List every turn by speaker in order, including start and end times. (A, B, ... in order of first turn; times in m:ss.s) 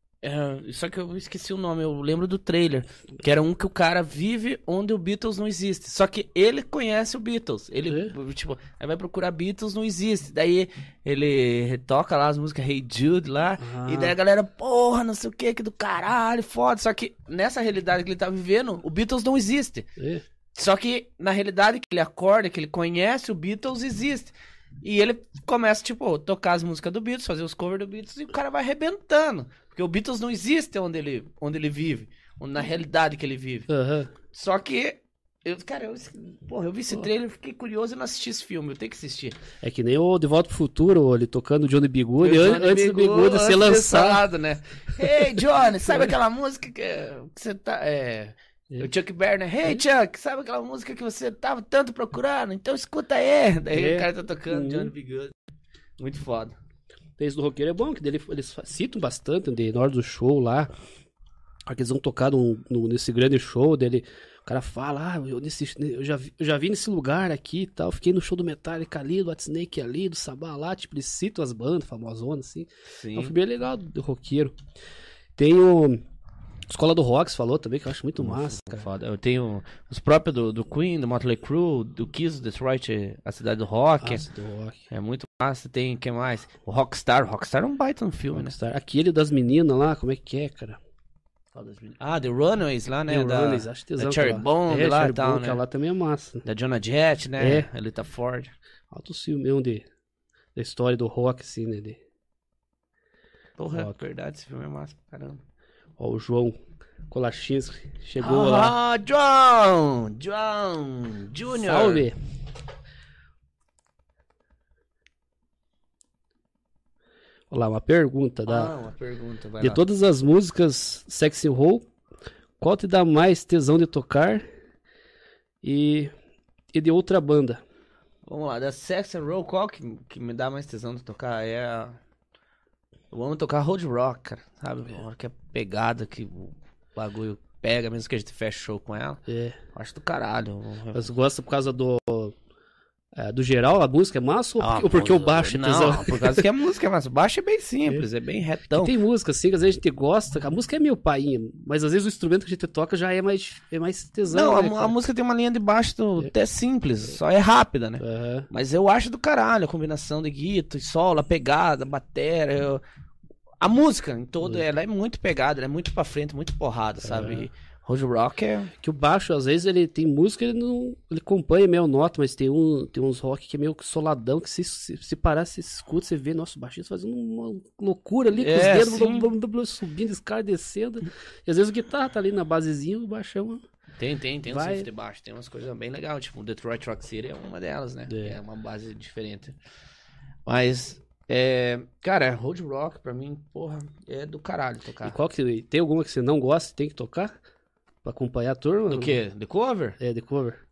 0:00.2-0:19.9 A
0:13.6-0:14.2 B
0:20.0-0:20.2 B
0:20.6-0:33.7 A
0:33.7-0:34.1 B
0:34.3-0:39.4 A
0:39.6-0:44.2 B
0:42.2-0:55.3 A
0:45.1-0:46.1 B
0:53.7-0:54.9 B
0:56.0-0:56.6 A
0:57.2-1:00.7 B
1:01.7-1:14.6 B
1:12.9-1:13.3 A
1:15.4-1:16.0 B
1:16.7-1:18.9 B
1:18.2-1:24.3 A
1:24.0-1:24.8 B
1:24.9-1:28.6 A
1:28.3-1:30.8 B
1:31.5-1:35.6 A
1:33.1-1:36.4 B
1:36.4-1:38.5 A
1:37.4-1:37.7 B
1:38.9-1:39.8 B
1:40.6-1:42.0 B
1:43.6-1:45.4 A
1:46.0-1:46.6 B
1:47.1-1:48.8 B
1:48.2-1:52.1 A
1:51.5-1:52.2 B
1:57.5-1:58.7 B
1:58.5-1:59.8 A
1:59.6-2:01.9 B
2:02.6-2:04.4 B
2:05.6-2:06.1 B
2:06.7-2:07.6 B
2:08.2-2:12.0 A
2:13.1-2:19.2 A
2:19.3-2:19.6 B
2:19.7-2:21.1 A
2:20.9-2:22.4 B
2:23.2-2:26.5 B
2:24.6-2:29.0 A
2:28.7-2:35.0 B
2:34.3-2:42.8 A
2:38.0-2:38.5 B
2:43.6-2:48.7 A
2:47.0-2:47.5 B
2:48.8-3:03.6 B
2:58.4-2:59.3 A
3:04.0-3:09.6 A
3:04.5-3:04.9 B
3:08.1-3:08.4 B
3:10.5-3:15.2 A
3:15.0-3:17.4 B
3:18.0-3:19.2 B
3:18.9-3:20.0 A
3:20.0-3:20.6 B